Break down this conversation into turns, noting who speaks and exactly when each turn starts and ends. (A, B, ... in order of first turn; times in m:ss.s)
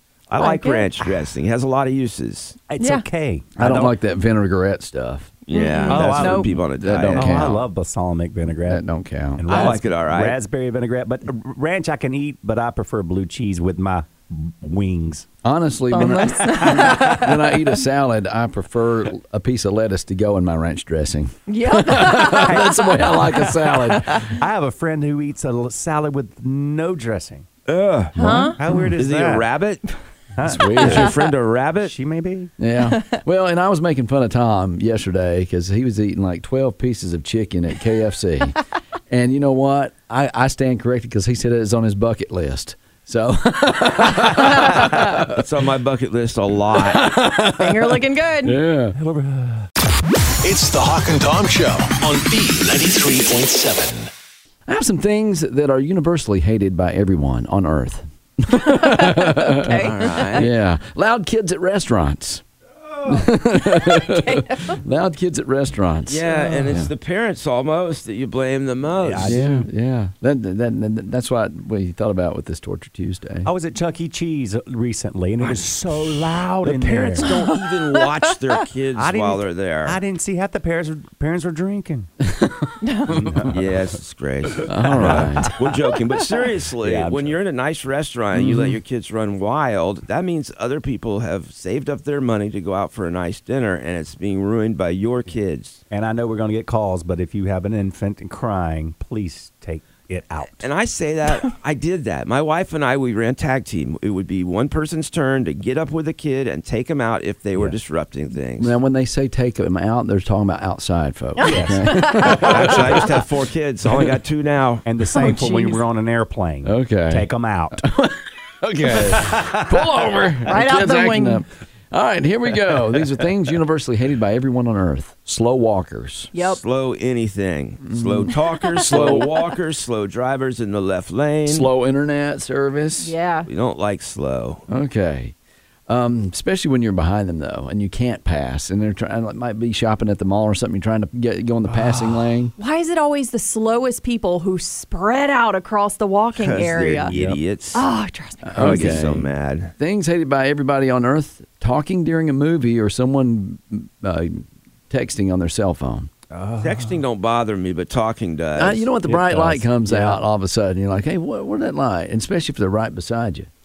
0:00.3-0:02.6 A
0:00.4-0:00.9 B
0:02.7-0:03.9 C
0:02.8-0:03.0 B
0:03.6-0:05.3 D
0:05.5-0:07.5 A
0:05.5-0:06.5 B
0:05.9-0:08.8 C
0:06.8-0:07.6 D
0:08.7-0:09.8 D
0:09.4-0:15.3 C
0:09.5-0:10.4 A
0:15.4-0:24.3 D
0:15.9-0:17.3 B
0:16.4-0:17.2 C
0:21.5-0:22.8 B
0:22.4-0:27.4 C
0:27.7-0:28.2 A
0:28.2-0:28.6 B
0:28.2-0:28.9 D
0:28.2-0:29.5 C
0:29.0-0:29.8 A
0:30.3-0:31.2 C
0:30.4-0:31.1 D
0:30.7-0:31.9 A
0:31.8-0:32.5 C
0:32.6-0:38.6 D
0:39.1-0:45.2 D
0:45.3-0:47.0 A
0:46.8-0:49.0 D
0:47.6-0:48.6 B
0:49.0-0:49.7 C
0:50.4-0:54.1 E
0:54.7-1:02.4 D
0:58.6-1:00.4 B
0:59.8-1:00.5 A
1:03.0-1:06.9 D
1:03.8-1:04.8 B
1:06.1-1:09.4 A
1:09.0-1:09.6 C
1:09.2-1:13.5 D
1:13.4-1:17.3 C
1:15.4-1:20.0 A
1:17.2-1:18.0 B
1:19.0-1:22.1 C
1:22.2-1:23.4 D
1:22.8-1:23.1 B
1:23.1-1:23.8 C
1:23.5-1:35.8 A
1:24.6-1:25.6 C
1:24.6-1:25.5 D
1:26.8-1:27.4 C
1:28.4-1:28.8 D
1:35.9-1:40.7 C
1:40.6-1:48.8 A
1:48.6-1:53.1 D
1:51.4-1:52.4 B
1:51.4-1:53.0 C
1:52.2-1:54.8 A
1:54.8-1:57.8 C
1:55.1-1:55.8 B
1:56.6-2:06.3 D
1:59.0-1:59.8 C
2:00.5-2:01.4 B
2:06.3-2:06.6 B
2:06.4-2:11.7 A
2:07.9-2:09.2 D
2:08.8-2:09.2 B
2:11.4-2:13.1 D
2:13.0-2:13.5 B
2:13.5-2:14.6 A
2:14.7-2:15.3 D
2:15.9-2:22.5 D
2:21.7-2:22.2 C
2:22.6-2:27.1 B
2:26.4-2:27.8 A
2:27.1-2:27.4 C
2:27.7-2:29.0 B
2:28.4-2:36.1 D
2:28.6-2:29.7 A
2:36.3-2:37.0 C
2:36.6-2:38.9 A
2:38.6-2:43.5 D
2:39.0-2:40.2 C